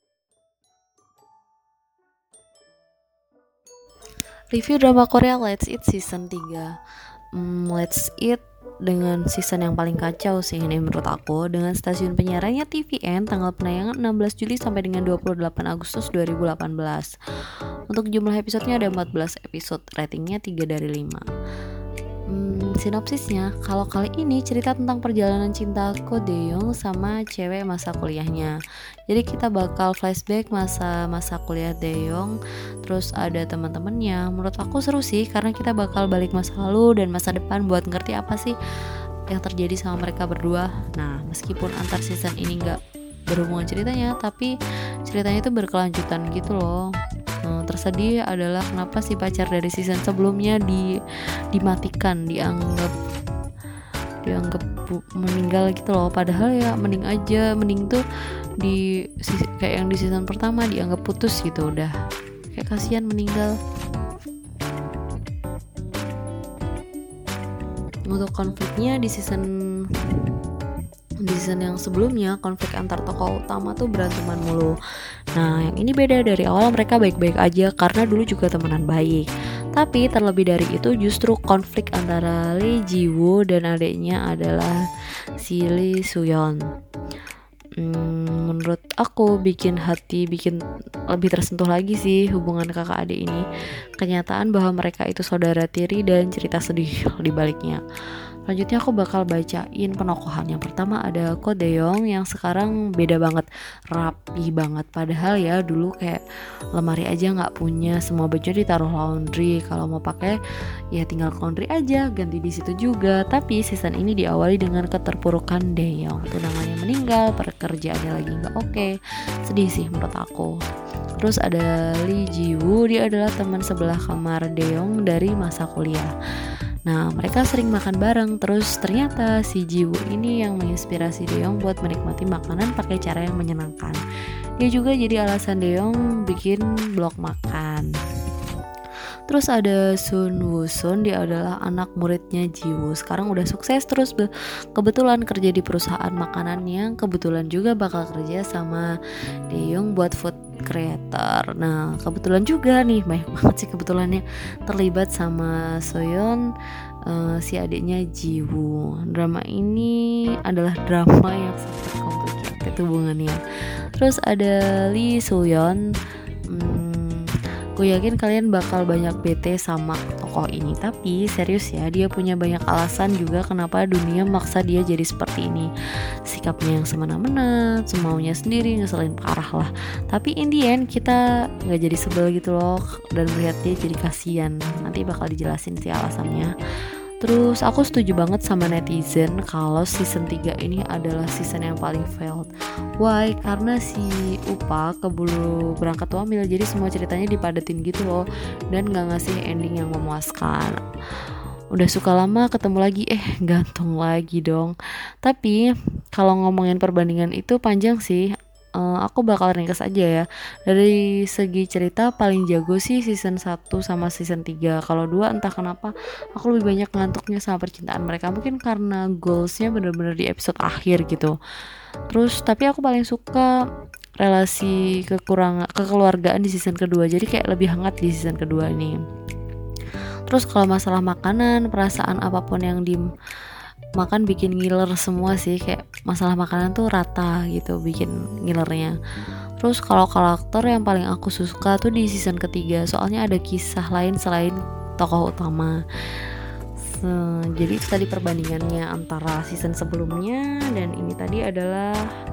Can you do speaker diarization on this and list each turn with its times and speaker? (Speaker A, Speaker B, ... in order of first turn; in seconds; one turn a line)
Speaker A: 4.5-6.7
Speaker A: 7.3-17.1
Speaker A: 17.9-21.2
Speaker A: 22.3-28.5
Speaker A: 29.1-38.5
Speaker A: 39.3-42.8
Speaker A: 43.3-44.5
Speaker A: 45.0-46.9
Speaker A: 47.4-50.9
Speaker A: 51.5-52.9
Speaker A: 54.2-58.0
Speaker A: 58.6-61.9
Speaker A: 62.5-63.6
Speaker A: 68.1-70.4
Speaker A: 71.2-74.7
Speaker A: 75.3-84.8
Speaker A: 85.4-86.6
Speaker A: 87.8-90.6
Speaker A: 91.1-93.4
Speaker A: 94.0-97.8
Speaker A: 98.5-106.2
Speaker A: 106.7-110.4
Speaker A: 110.9-118.9
Speaker A: 119.4-120.5
Speaker A: 121.2-126.1
Speaker A: 126.8-134.0
Speaker A: 134.6-137.9
Speaker A: 139.3-148.8
Speaker A: 149.5-156.4
Speaker A: 157.1-163.4
Speaker A: 164.0-165.8
Speaker A: 166.5-175.7
Speaker A: 176.3-186.5
Speaker A: 187.2-192.5
Speaker A: 193.0-200.8
Speaker A: 201.7-221.3
Speaker A: 222.1-223.5
Speaker A: 224.2-229.0
Speaker A: 230.3-233.0
Speaker A: 233.9-238.9
Speaker A: 239.6-245.8
Speaker A: 246.8-252.0